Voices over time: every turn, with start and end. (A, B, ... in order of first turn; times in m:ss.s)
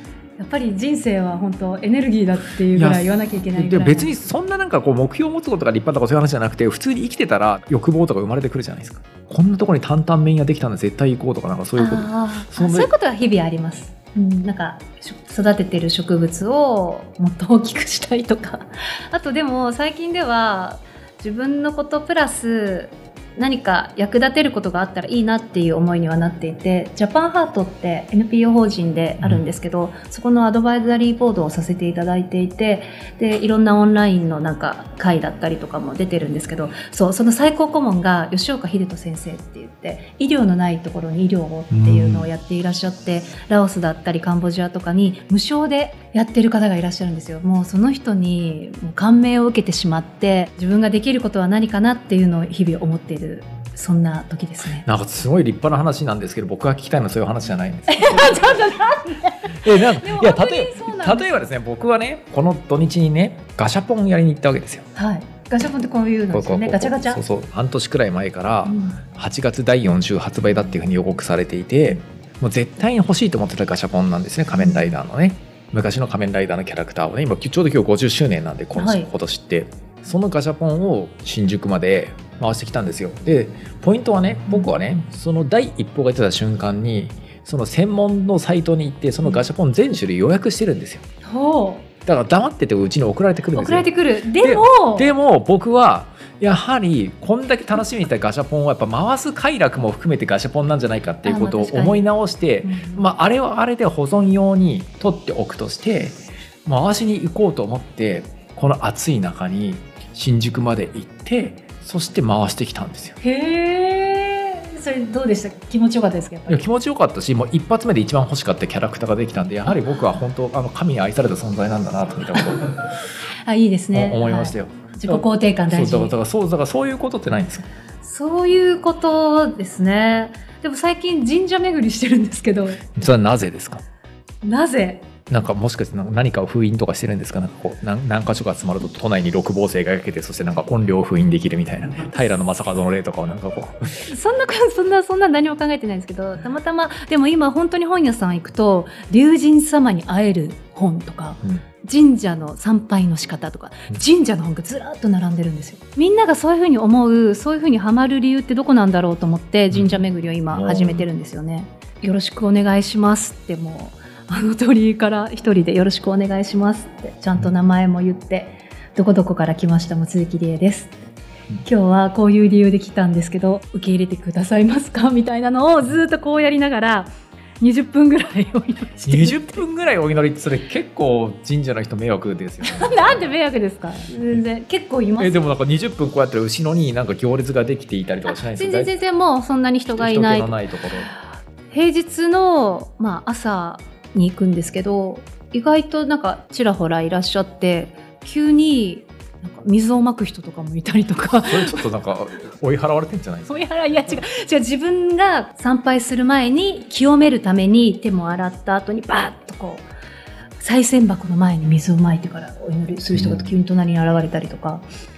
0:00.4-0:04.2 A
0:02.8-0:12.9 B
0:11.8-0:54.9 A
0:41.7-0:42.3 B
0:54.8-0:58.5 B
0:57.9-1:01.4 A
0:59.5-1:04.9 B
1:05.0-1:07.2 A
1:06.3-1:31.0 B
1:08.7-1:09.0 A
1:18.8-1:19.1 A
1:31.2-1:31.9 A
1:32.0-1:53.2 B
1:33.5-1:35.1 A
1:41.2-1:42.1 A
1:42.6-1:43.1 A
1:53.2-1:56.6 A
1:56.5-2:03.0 B
2:03.4-2:06.2 A
2:03.9-2:07.6 B
2:08.0-2:12.8 A
2:13.0-2:13.8 B
2:14.4-2:15.1 A
2:15.3-2:24.1 B
2:24.1-2:50.9 A
2:39.7-2:41.1 B
2:51.6-2:57.1 A
2:57.6-2:59.6 A
2:59.1-3:03.3 B
3:02.6-3:05.4 A
3:05.2-3:08.9 B
3:08.3-3:10.6 A
3:10.0-3:11.1 B
3:11.7-3:21.8 A
3:21.4-3:23.5 B
3:23.5-3:29.9 A
3:30.6-3:34.9 A
3:33.2-3:33.5 B